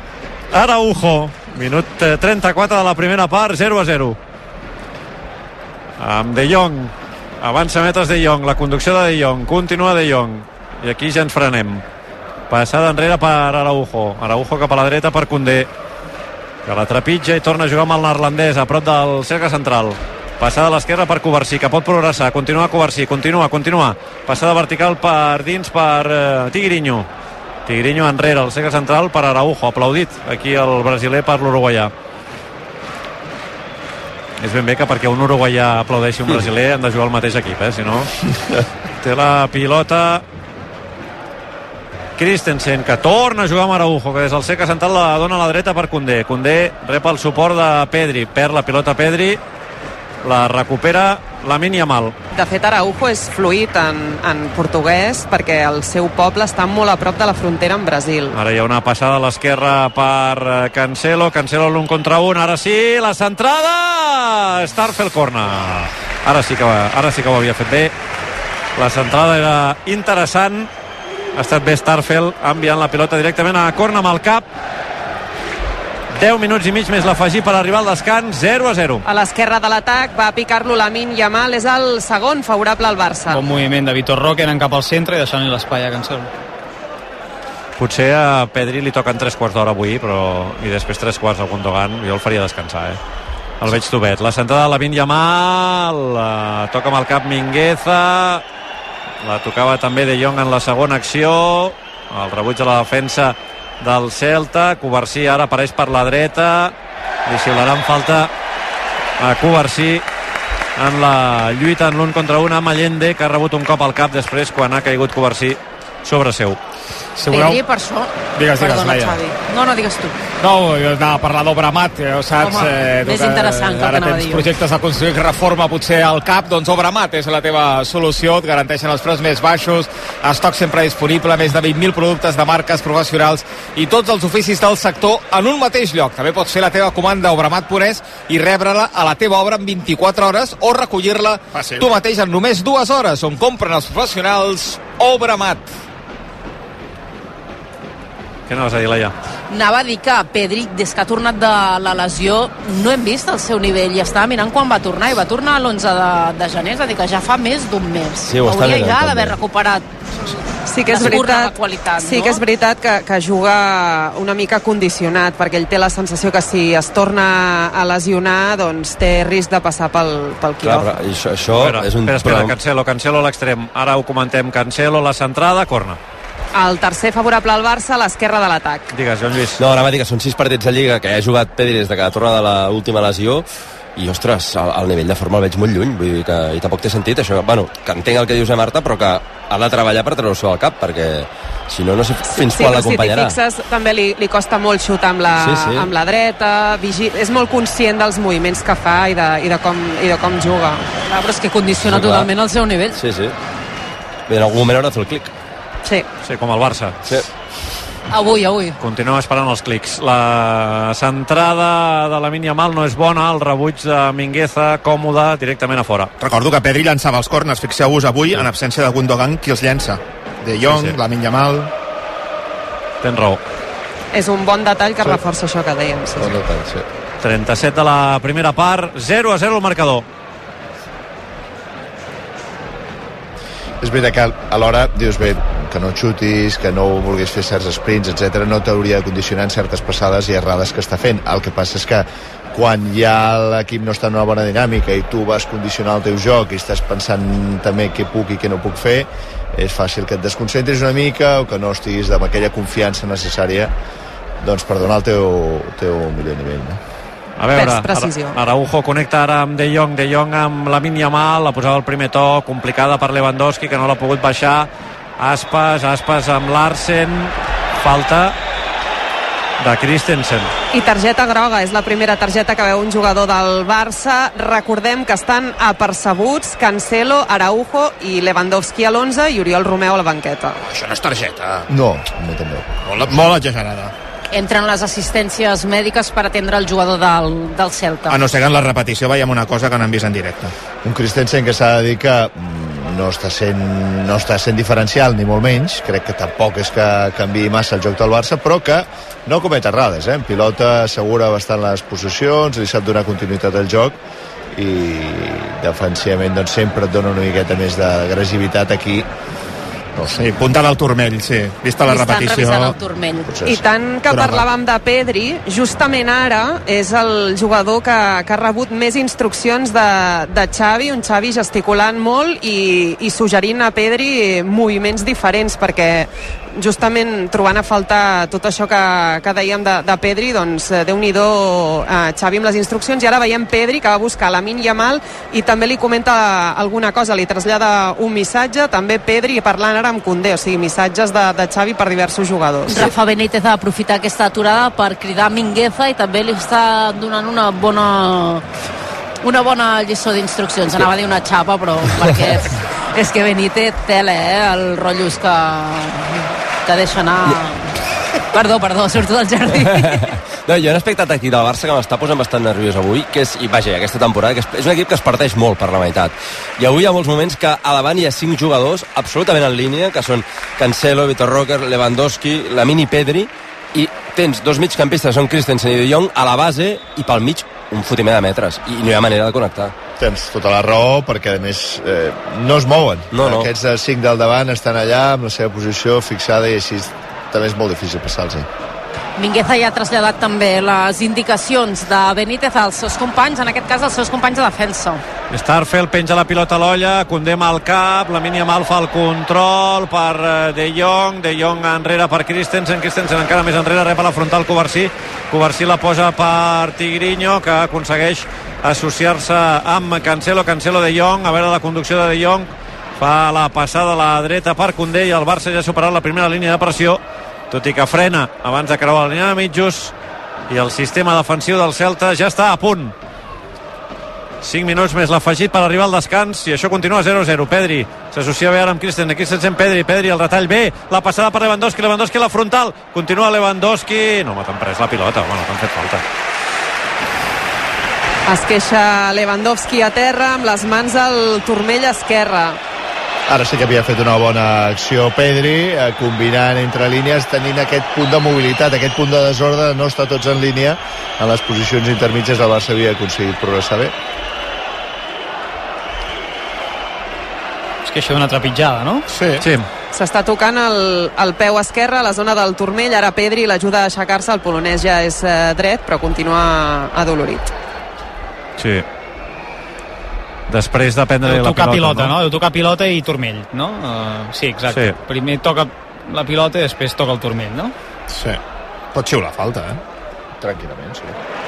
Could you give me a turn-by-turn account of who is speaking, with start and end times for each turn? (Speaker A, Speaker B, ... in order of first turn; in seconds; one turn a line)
Speaker A: 0.5-4.2
Speaker A: 6.0-11.8
Speaker A: 12.5-15.7
Speaker A: 16.7-27.1
Speaker A: 27.7-31.9
Speaker A: 34.4-38.1
Speaker A: 39.0-40.2
Speaker A: 42.2-49.4
Speaker A: 50.2-52.1
Speaker B: 52.3-58.4
Speaker A: 58.3-67.9
Speaker A: 68.8-70.7
Speaker A: 71.3-74.5
Speaker A: 76.1-79.0
Speaker B: 79.0-83.4
Speaker C: 83.3-86.3
Speaker A: 87.8-93.0
Speaker A: 93.6-98.4
Speaker A: 99.2-106.7
Speaker A: 107.3-108.3
Speaker A: 109.2-110.0
Speaker A: 110.8-116.6
Speaker D: 117.2-117.6
Speaker E: 117.3-120.2
Speaker D: 118.3-119.2
Speaker D: 120.4-145.7
Speaker E: 122.4-124.5
Speaker F: 141.5-141.8
Speaker A: 148.5-149.1
Speaker E: 149.5-160.3
Speaker G: 158.3-159.4
Speaker B: 160.7-170.9
Speaker E: 160.9-162.4
Speaker G: 170.6-172.5
Speaker A: 171.5-176.0
Speaker B: 176.6-178.9
Speaker A: 178.9-179.6
Speaker G: 179.6-193.4
Speaker B: 192.3-200.8
Speaker G: 195.4-195.9
Speaker E: 201.1-203.0
Speaker G: 201.9-202.3
Speaker G: 203.0-203.3
Speaker G: 204.3-205.3
Speaker A: 206.2-207.0
Speaker E: 208.1-208.8
Speaker A: 208.8-216.1
Speaker F: 216.2-221.7
Speaker A: 220.6-221.0
Speaker A: 223.0-223.4
Speaker B: 224.1-226.4
Speaker H: 226.2-226.9
Speaker A: 227.2-230.1
Speaker H: 233.8-253.7
Speaker H: 254.4-256.8
Speaker A: 257.4-268.4
Speaker B: 257.6-258.4
Speaker A: 269.6-270.5
Speaker B: 270.7-280.6
Speaker F: 280.7-281.6
Speaker H: 281.7-282.8
Speaker F: 282.9-283.9
Speaker E: 284.3-288.2
Speaker F: 288.1-290.5
Speaker H: 290.8-304.0
Speaker H: 304.5-309.1
Speaker H: 309.9-310.2
Speaker F: 310.2-312.7
Speaker E: 311.9-313.3
Speaker H: 313.3-313.6
Speaker B: 313.5-342.9
Speaker F: 314.1-314.4
Speaker E: 342.7-348.4
Speaker E: 349.2-357.7
Speaker E: 358.3-360.1
Speaker G: 359.9-379.7
Speaker H: 380.0-388.5
Speaker G: 383.1-383.5
Speaker E: 389.2-395.0
Speaker A: 395.3-417.0
Speaker A: 417.5-419.9
Speaker A: 420.5-422.9
Speaker A: 424.4-436.0
Speaker B: 438.3-442.6
Speaker H: 443.3-453.9
Speaker C: 457.9-459.0
Speaker F: 459.1-459.4
Speaker A: 459.4-459.7
Speaker B: 459.9-467.5
Speaker A: 468.6-468.8
Speaker A: 470.5-472.2
Speaker C: 471.2-477.7
Speaker A: 474.7-475.0
Speaker F: 478.1-478.4
Speaker F: 478.9-479.8
Speaker H: 480.4-481.2